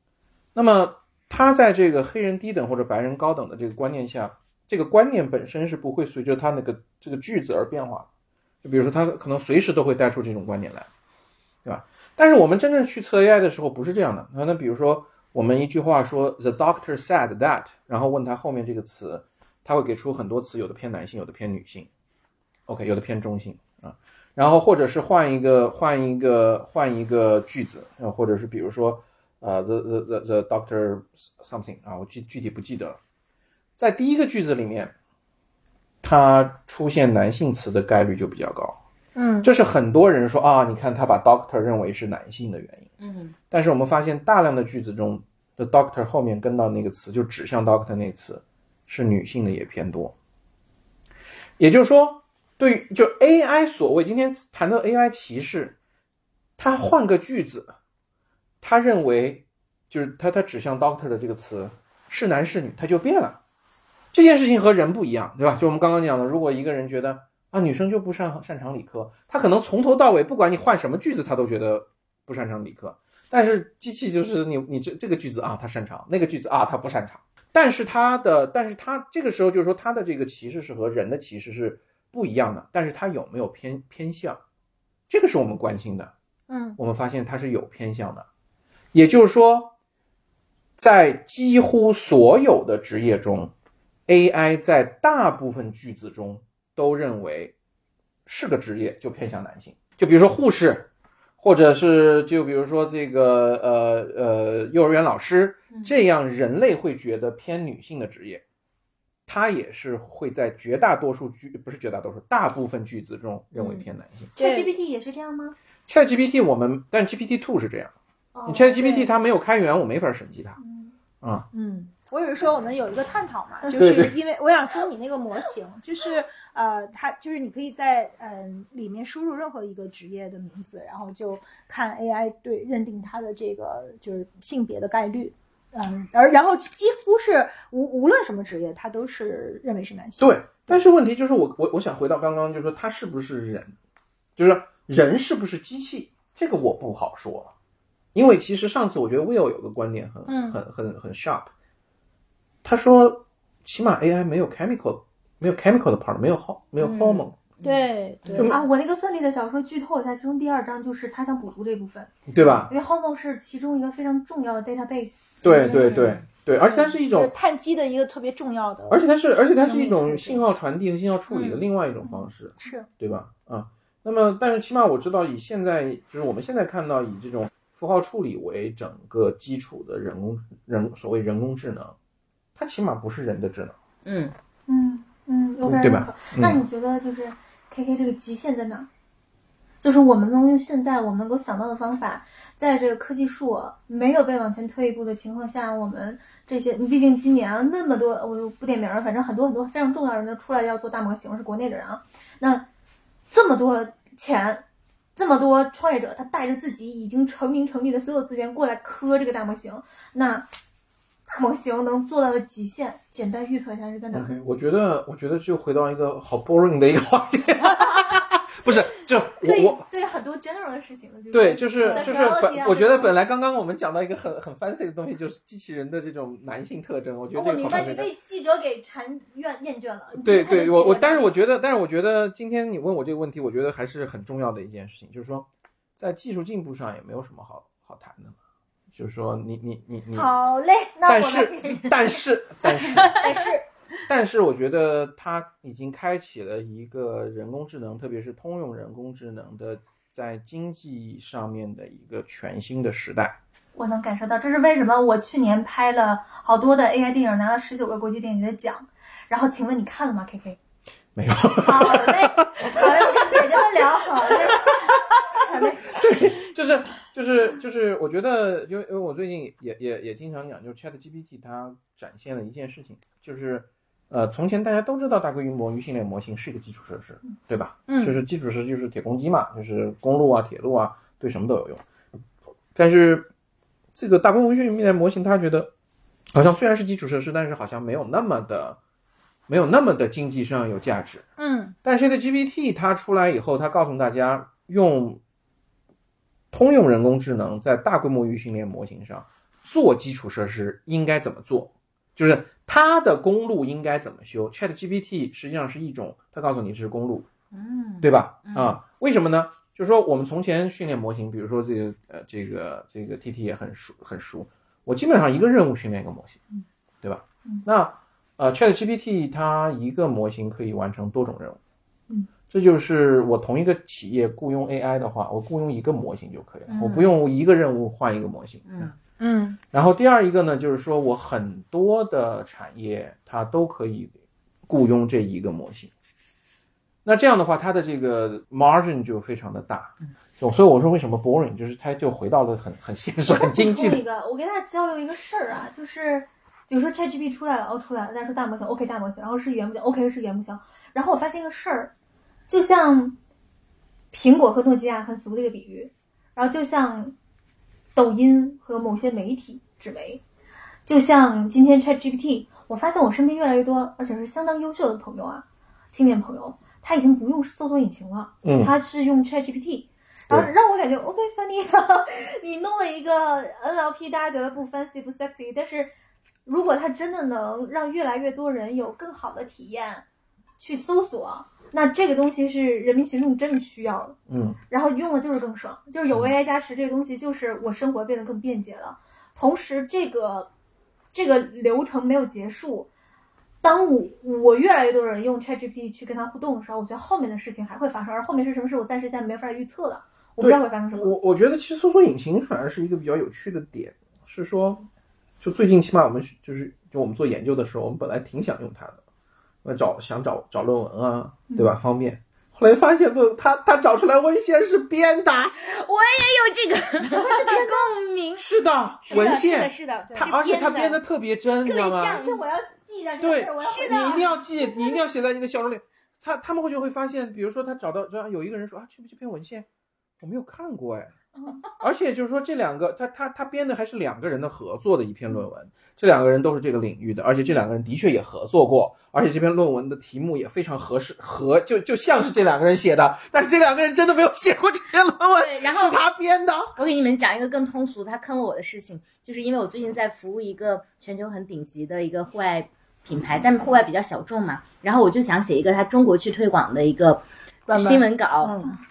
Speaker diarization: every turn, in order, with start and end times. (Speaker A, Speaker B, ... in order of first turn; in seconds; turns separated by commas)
Speaker A: 0.5-8.1, Speaker A: 8.6-10.9, Speaker A: 11.6-21.9, Speaker A: 22.7-33.0, Speaker A: 33.8-34.9, Speaker A: 36.0-38.8, Speaker B: 39.2-39.5, Speaker A: 39.4-42.9, Speaker C: 43.0-43.3, Speaker A: 43.5-50.1, Speaker A: 51.6-55.8, Speaker A: 56.6-57.7, Speaker A: 58.6-63.4, Speaker A: 64.1-84.4, Speaker A: 85.1-86.1, Speaker B: 86.5-86.8, Speaker A: 86.8-88.2, Speaker A: 88.9-89.8, Speaker A: 90.8-93.5, Speaker A: 94.1-97.5, Speaker A: 98.2-108.4, Speaker A: 109.3-114.3, Speaker D: 114.3-115.5, Speaker B: 114.4-114.7, Speaker A: 115.9-117.9, Speaker D: 118.3-118.8, Speaker A: 118.5-120.6, Speaker B: 118.8-119.1, Speaker D: 120.6-120.9, Speaker A: 121.2-121.5, Speaker B: 121.5-140.8, Speaker A: 123.8-124.2, Speaker A: 140.2-143.7, Speaker A: 144.4-147.5, Speaker A: 148.1-151.5, Speaker B: 150.3-150.6, Speaker A: 152.6-157.4, Speaker C: 156.8-158.5, Speaker B: 157.6-158.5, Speaker D: 158.4-162.1, Speaker A: 162.3-162.7, Speaker D: 162.7-165.3, Speaker C: 165.4-166.2, Speaker A: 165.4-167.3, Speaker B: 166.6-169.0, Speaker A: 168.9-181.9, Speaker B: 169.6-170.4, Speaker B: 171.3-171.6, Speaker A: 182.6-183.8, Speaker C: 184.0-184.3, Speaker D: 184.7-188.9, Speaker A: 185.6-186.6, Speaker D: 189.8-202.7, Speaker D: 203.3-204.6, Speaker D: 205.2-210.5, Speaker D: 211.3-214.4, Speaker A: 214.1-219.8, Speaker D: 219.4-223.1, Speaker A: 221.3-228.1, Speaker D: 227.3-231.3, Speaker A: 230.2-235.5, Speaker A: 236.0-238.4, Speaker A: 238.9-240.3, Speaker D: 240.1-242.2, Speaker A: 241.1-243.2, Speaker B: 242.8-243.5, Speaker D: 243.2-243.6, Speaker A: 244.1-253.4, Speaker D: 253.7-260.6, Speaker A: 261.1-263.4, Speaker D: 261.6-266.0, Speaker A: 264.7-264.9, Speaker A: 265.9-281.8, Speaker B: 277.9-278.2, Speaker A: 282.7-283.3, Speaker A: 283.9-285.7, Speaker A: 286.3-288.8, Speaker A: 289.5-291.2, Speaker B: 291.4-291.7, Speaker A: 291.8-295.2, Speaker A: 296.5-307.3, Speaker C: 307.5-308.8, Speaker A: 308.0-316.4, Speaker A: 317.0-321.6, Speaker A: 322.5-328.9, Speaker C: 326.7-327.1, Speaker C: 328.6-328.9, Speaker B: 329.2-329.6, Speaker A: 329.7-334.1, Speaker A: 334.7-335.9, Speaker A: 337.0-344.0, Speaker D: 343.3-351.9, Speaker D: 352.5-353.2, Speaker D: 354.1-357.1, Speaker D: 357.9-360.2, Speaker D: 360.9-375.9, Speaker A: 368.4-368.7, Speaker D: 376.4-380.0, Speaker D: 380.6-384.2, Speaker A: 384.3-384.6, Speaker D: 384.7-390.5, Speaker D: 391.1-392.9, Speaker D: 393.6-401.1, Speaker A: 400.4-404.9, Speaker A: 405.4-409.0, Speaker A: 409.6-415.6, Speaker D: 411.5-411.7, Speaker C: 415.6-418.5, Speaker D: 417.0-417.9, Speaker A: 418.4-422.2, Speaker C: 419.0-421.0, Speaker C: 421.6-422.4, Speaker D: 422.1-424.8, Speaker A: 423.2-429.7, Speaker C: 423.6-424.2, Speaker A: 430.2-431.1, Speaker A: 431.7-446.8, Speaker C: 445.4-446.0, Speaker C: 446.8-458.6, Speaker B: 457.7-458.8